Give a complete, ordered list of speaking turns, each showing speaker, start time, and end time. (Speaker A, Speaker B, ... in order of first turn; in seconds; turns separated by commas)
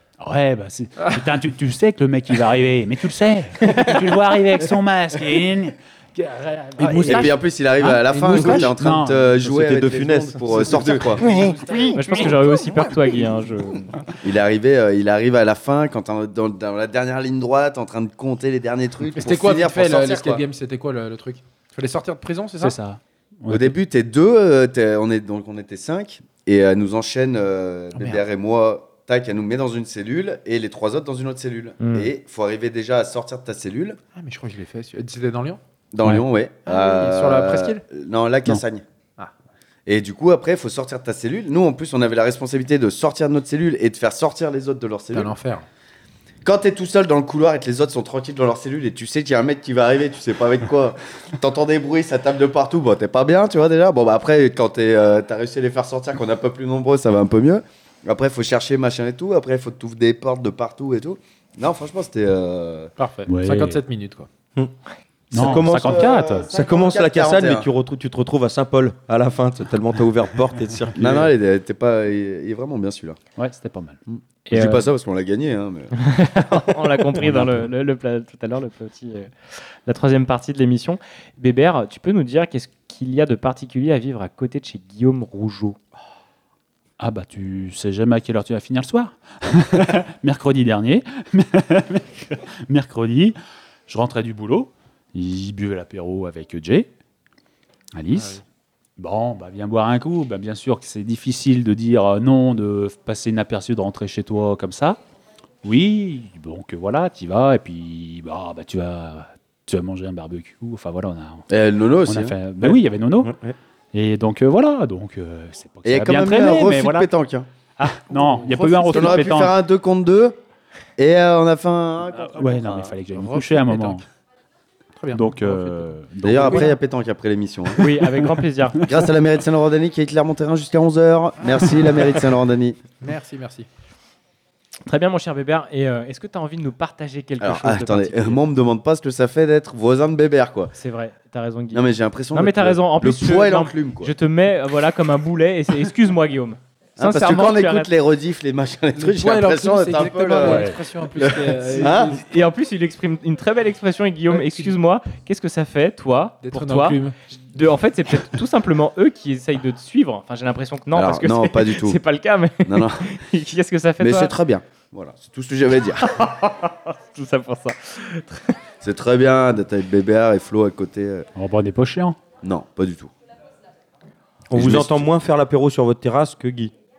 Speaker A: 0.2-9.5, Speaker B: 6.8-12.2, Speaker C: 9.3-12.0, Speaker D: 11.9-14.0, Speaker B: 14.2-20.4, Speaker E: 19.1-22.8, Speaker A: 22.6-23.8, Speaker B: 23.5-34.0, Speaker A: 27.9-28.2, Speaker E: 34.1-35.6, Speaker B: 35.9-38.8, Speaker E: 36.7-37.8, Speaker B: 39.9-45.3, Speaker E: 45.1-45.7, Speaker B: 46.4-62.9, Speaker E: 63.0-64.3, Speaker A: 63.3-63.8, Speaker C: 65.3-71.3, Speaker A: 65.3-66.5, Speaker B: 65.3-67.7, Speaker B: 71.0-73.2, Speaker A: 73.4-74.0, Speaker B: 74.1-75.9, Speaker D: 74.5-74.8, Speaker D: 76.0-85.8, Speaker A: 77.1-77.7, Speaker A: 87.0-93.4, Speaker A: 93.9-96.9, Speaker A: 98.0-98.4, Speaker E: 98.1-98.4, Speaker A: 99.0-105.0, Speaker A: 105.6-111.5, Speaker B: 111.5-112.4, Speaker A: 112.0-113.4, Speaker C: 112.6-113.5, Speaker A: 113.9-117.1, Speaker B: 115.8-117.5, Speaker A: 117.9-119.5, Speaker E: 118.5-119.2, Speaker B: 118.8-120.4, Speaker B: 121.0-122.9, Speaker A: 122.2-124.0, Speaker E: 123.1-124.0, Speaker E: 125.0-125.9, Speaker A: 125.1-126.7, Speaker B: 126.2-127.9, Speaker D: 127.8-128.9, Speaker B: 128.8-132.8, Speaker E: 133.0-133.7, Speaker D: 134.9-138.4, Speaker B: 137.4-140.7, Speaker D: 140.7-147.9, Speaker B: 141.7-144.1, Speaker B: 147.0-152.2, Speaker E: 148.9-152.2, Speaker A: 150.4-150.7, Speaker D: 152.1-164.3, Speaker E: 154.3-154.7, Speaker E: 156.4-157.2, Speaker B: 160.9-162.0, Speaker B: 162.7-163.1, Speaker B: 164.0-166.1, Speaker D: 166.0-168.6, Speaker B: 168.8-171.3, Speaker A: 171.4-172.2, Speaker B: 172.4-173.1, Speaker C: 174.5-176.7, Speaker B: 174.6-175.1